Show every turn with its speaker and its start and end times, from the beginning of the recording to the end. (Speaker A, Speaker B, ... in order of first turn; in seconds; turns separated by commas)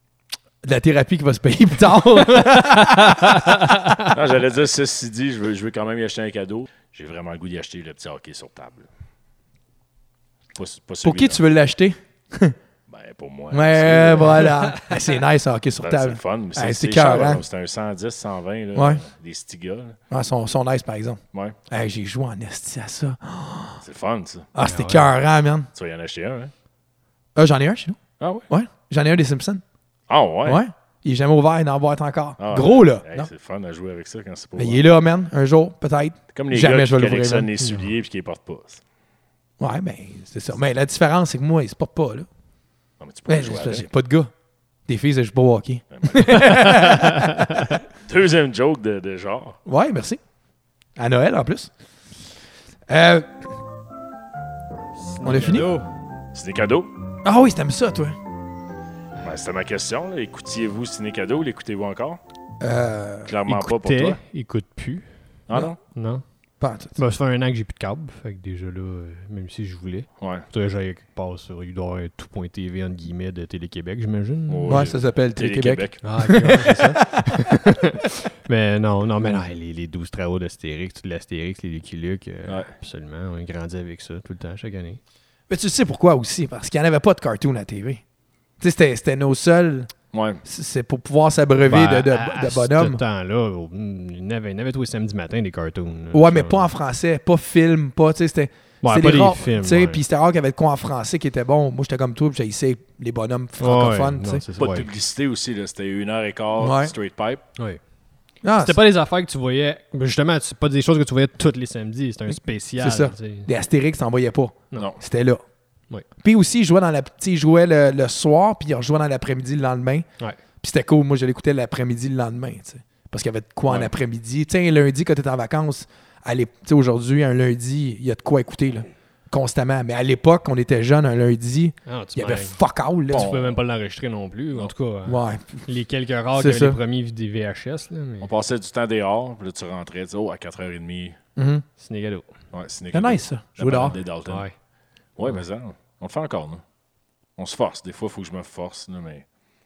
Speaker A: 0.6-4.0, Speaker B: 4.1-8.9, Speaker B: 10.5-11.4, Speaker A: 11.0-12.6, Speaker B: 12.9-14.4, Speaker A: 13.5-17.4, Speaker B: 15.8-20.0, Speaker A: 18.7-19.0, Speaker A: 20.1-23.8, Speaker B: 23.8-24.5, Speaker A: 24.5-25.7, Speaker C: 24.6-25.1, Speaker B: 25.7-26.5, Speaker A: 27.3-29.6, Speaker B: 28.2-28.5, Speaker B: 30.1-30.6, Speaker A: 30.4-33.3, Speaker B: 32.4-34.8, Speaker A: 34.5-37.5, Speaker B: 36.3-38.8, Speaker C: 37.6-37.9, Speaker A: 39.6-42.3, Speaker B: 43.0-43.9, Speaker A: 43.3-44.3, Speaker A: 44.9-47.8, Speaker B: 45.9-47.0, Speaker B: 47.9-49.6, Speaker A: 49.6-50.2, Speaker A: 51.0-51.7, Speaker A: 52.9-53.4, Speaker C: 55.1-55.9, Speaker A: 55.2-55.8, Speaker B: 56.3-56.9, Speaker A: 57.2-58.2, Speaker B: 59.2-62.2, Speaker A: 62.6-63.3, Speaker B: 63.2-64.2, Speaker C: 63.5-66.2, Speaker B: 65.5-65.8, Speaker A: 66.6-67.0, Speaker C: 66.9-74.9, Speaker B: 70.2-70.5, Speaker B: 74.5-76.5, Speaker A: 74.7-77.2, Speaker C: 76.0-85.0, Speaker B: 82.5-82.7, Speaker A: 85.5-88.0, Speaker A: 88.6-89.9, Speaker B: 90.1-90.4, Speaker A: 90.4-93.0, Speaker C: 91.7-96.7, Speaker A: 96.1-104.4, Speaker C: 98.8-100.0, Speaker C: 103.6-104.9, Speaker B: 104.6-107.4, Speaker A: 106.6-106.9, Speaker A: 108.4-108.8, Speaker C: 108.4-113.5, Speaker A: 112.3-115.4, Speaker B: 114.7-115.0, Speaker A: 116.2-120.0, Speaker A: 120.6-133.3, Speaker B: 123.7-123.9, Speaker C: 131.9-132.6, Speaker C: 133.1-138.3, Speaker B: 133.1-133.6, Speaker A: 135.0-135.7, Speaker A: 136.3-136.8, Speaker B: 138.2-141.2, Speaker A: 141.3-141.6, Speaker C: 141.8-142.3, Speaker B: 142.5-144.5, Speaker A: 142.9-144.0, Speaker C: 144.2-144.5, Speaker B: 145.2-146.6, Speaker B: 147.4-149.2